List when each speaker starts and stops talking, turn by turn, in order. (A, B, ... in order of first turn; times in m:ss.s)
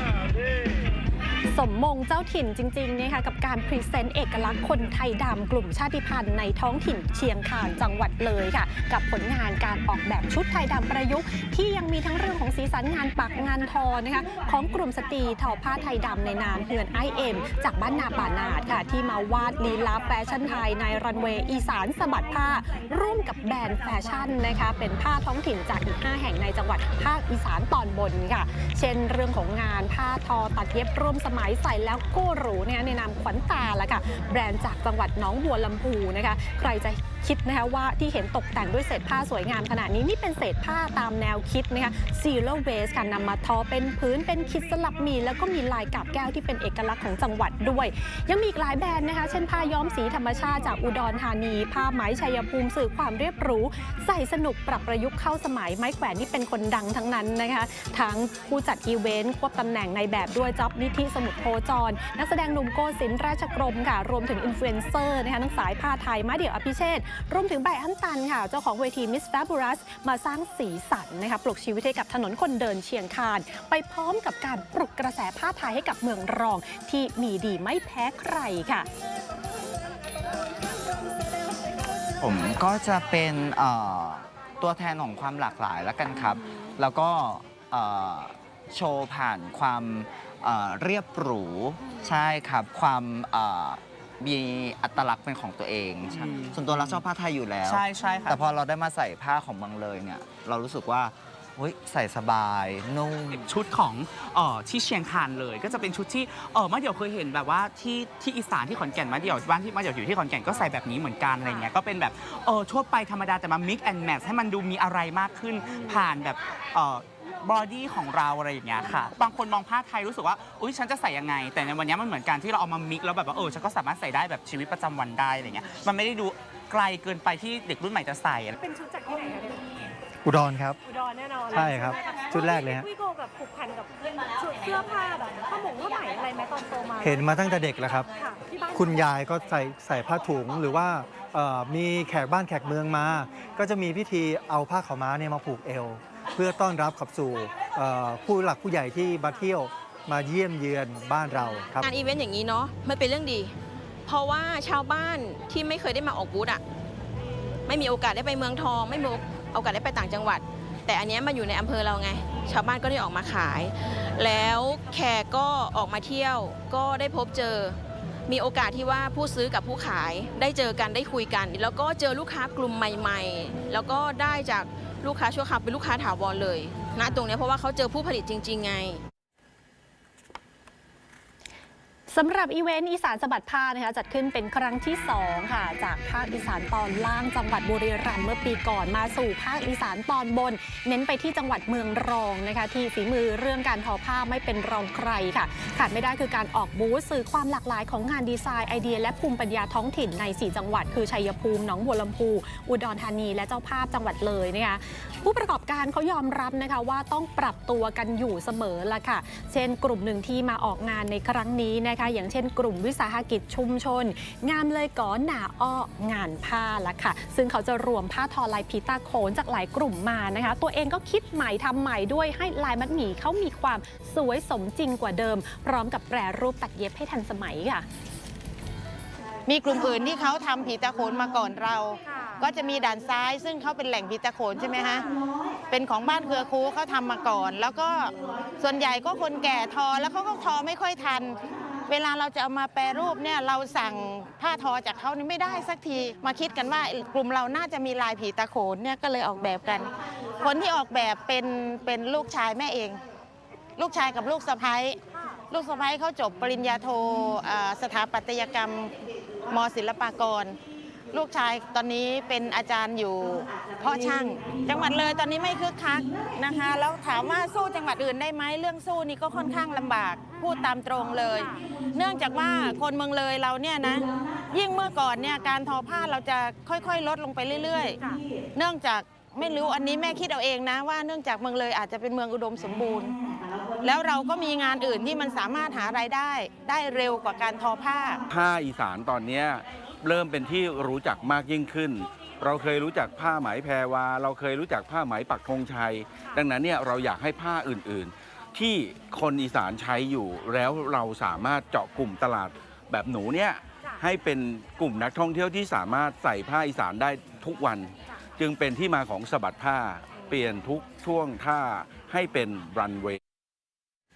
0:01.5-1:18.9 A
1:22.2-1:43.5 B
1:36.2-1:37.0 C
1:37.6-1:38.4 C
1:43.3-2:08.5 C
2:08.6-2:09.7 D
2:10.2-2:10.8 E
2:10.9-2:17.1 D
2:11.5-2:12.9 E
2:17.0-2:18.1 E
2:18.2-2:18.8 D
2:18.7-2:31.8 E
2:31.8-2:33.5 F
2:34.0-2:36.6 F
2:37.7-2:47.8 F
2:48.3-2:59.0 F
3:02.1-3:47.8 A
3:49.5-3:55.2 G
3:55.7-4:13.0 G
4:13.8-4:15.0 G
4:15.5-4:18.9 G
4:19.5-4:20.6 G
4:21.1-4:43.2 G
4:43.8-4:48.2 G
4:48.3-5:13.2 H